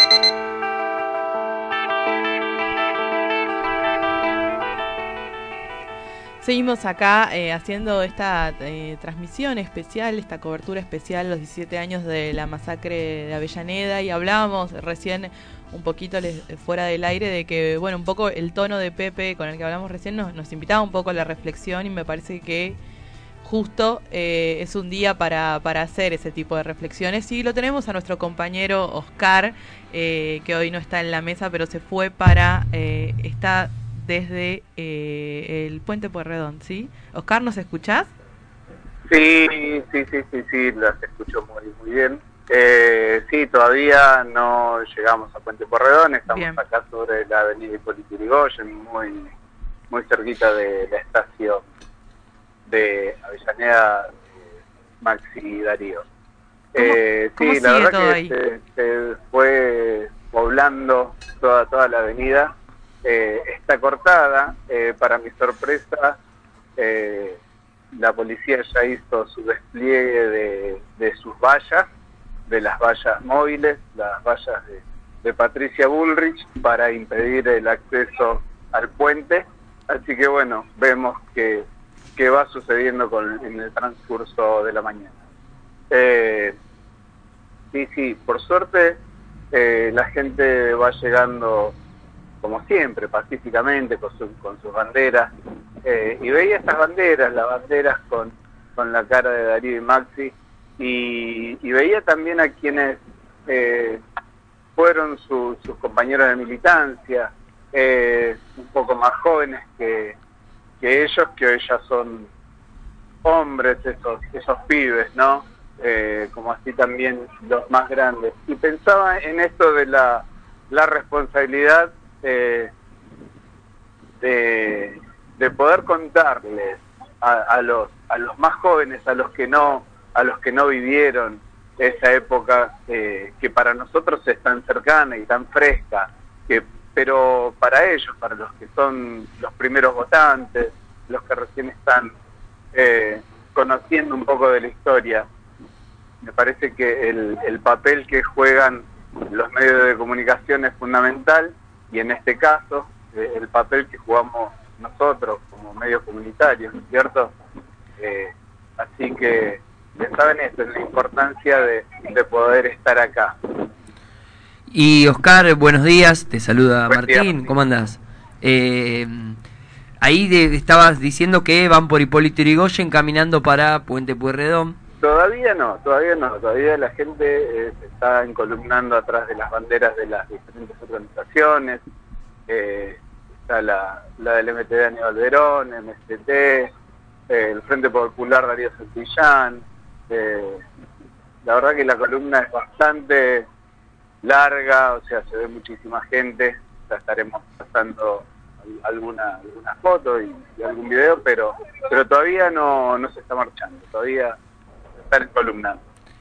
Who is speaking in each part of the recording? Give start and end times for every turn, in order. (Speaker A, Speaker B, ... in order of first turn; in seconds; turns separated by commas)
Speaker A: 6.4-22.8, Speaker A: 23.4-38.1, Speaker B: 39.1-49.3, Speaker A: 46.3-46.6, Speaker B: 49.9-51.6, Speaker B: 52.7-54.1, Speaker B: 55.0-56.1, Speaker B: 56.7-62.5, Speaker A: 56.8-58.3, Speaker B: 63.0-66.2, Speaker B: 66.8-67.4, Speaker B: 67.9-71.9, Speaker B: 72.5-85.2, Speaker B: 85.9-86.6, Speaker B: 87.7-89.0, Speaker B: 89.5-91.8, Speaker B: 92.4-95.3, Speaker B: 95.8-104.0, Speaker B: 104.8-110.2, Speaker B: 110.8-112.3, Speaker B: 113.2-122.7, Speaker B: 124.2-142.1, Speaker B: 142.7-145.3, Speaker B: 146.2-157.3, Speaker B: 158.0-163.4, Speaker C: 164.7-169.4, Speaker B: 166.9-167.5, Speaker C: 170.0-174.8, Speaker B: 175.0-181.8, Speaker B: 182.5-186.7, Speaker B: 187.3-190.6, Speaker B: 191.4-193.5, Speaker B: 194.2-204.4, Speaker B: 205.1-205.8